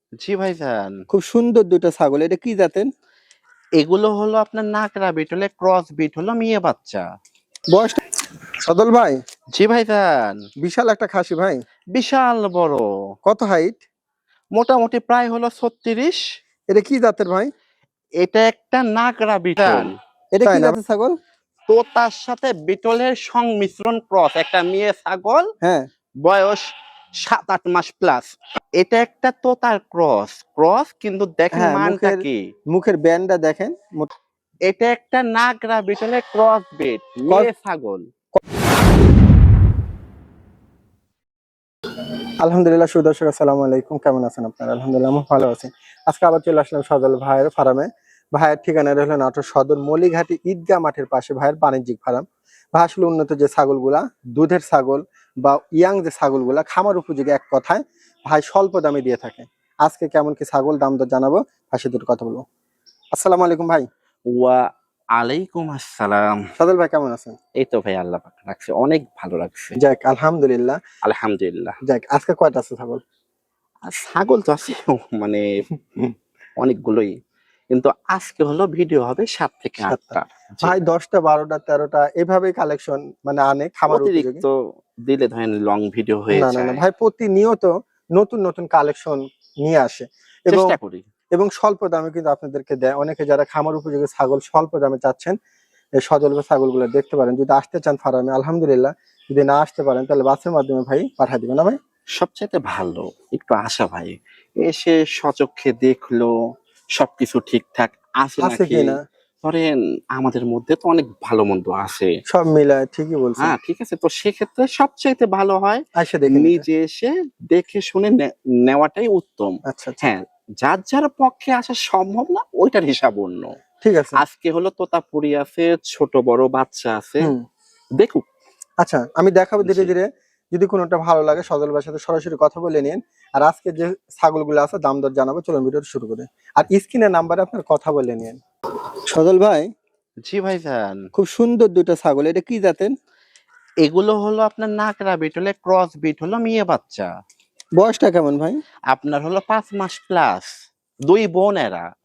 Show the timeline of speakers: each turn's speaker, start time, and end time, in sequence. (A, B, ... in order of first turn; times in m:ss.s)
0:00.2-0:01.0 A
0:01.1-0:02.9 B
0:03.8-0:07.0 A
0:07.7-0:08.0 B
0:08.6-0:09.1 B
0:09.6-0:10.4 A
0:10.6-0:11.6 B
0:11.9-0:12.8 A
0:13.2-0:13.8 B
0:14.5-0:16.2 A
0:16.7-0:17.5 B
0:18.2-0:19.9 A
0:19.6-0:21.1 B
0:21.7-0:25.4 A
0:26.2-0:26.6 A
0:27.2-0:32.4 A
0:31.5-0:34.1 B
0:34.7-0:38.0 A
0:42.4-1:02.4 B
1:03.1-1:03.8 B
1:04.3-1:04.6 A
1:05.2-1:06.3 A
1:06.6-1:07.3 B
1:07.6-1:09.8 A
1:09.8-1:10.8 B
1:11.0-1:11.7 A
1:11.8-1:13.0 B
1:13.9-1:15.4 A
1:16.6-1:17.1 A
1:17.7-1:20.8 A
1:19.9-1:24.4 B
1:23.9-1:24.5 A
1:25.0-1:26.8 A
1:26.3-1:30.7 B
1:30.5-1:31.0 A
1:31.3-1:35.3 B
1:36.0-1:41.8 B
1:42.2-1:46.3 A
1:47.0-1:52.1 A
1:48.4-1:49.0 B
1:52.3-1:53.6 B
1:53.4-2:03.5 A
1:56.0-1:56.6 B
1:59.7-2:00.0 B
2:03.8-2:04.2 B
2:04.2-2:07.3 A
2:08.8-2:18.4 B
2:09.6-2:09.9 A
2:19.1-2:19.7 B
2:20.2-2:21.1 A
2:21.1-2:22.9 B
2:23.8-2:27.1 A
2:27.8-2:28.6 B
2:28.9-2:30.5 A
2:31.1-2:31.8 A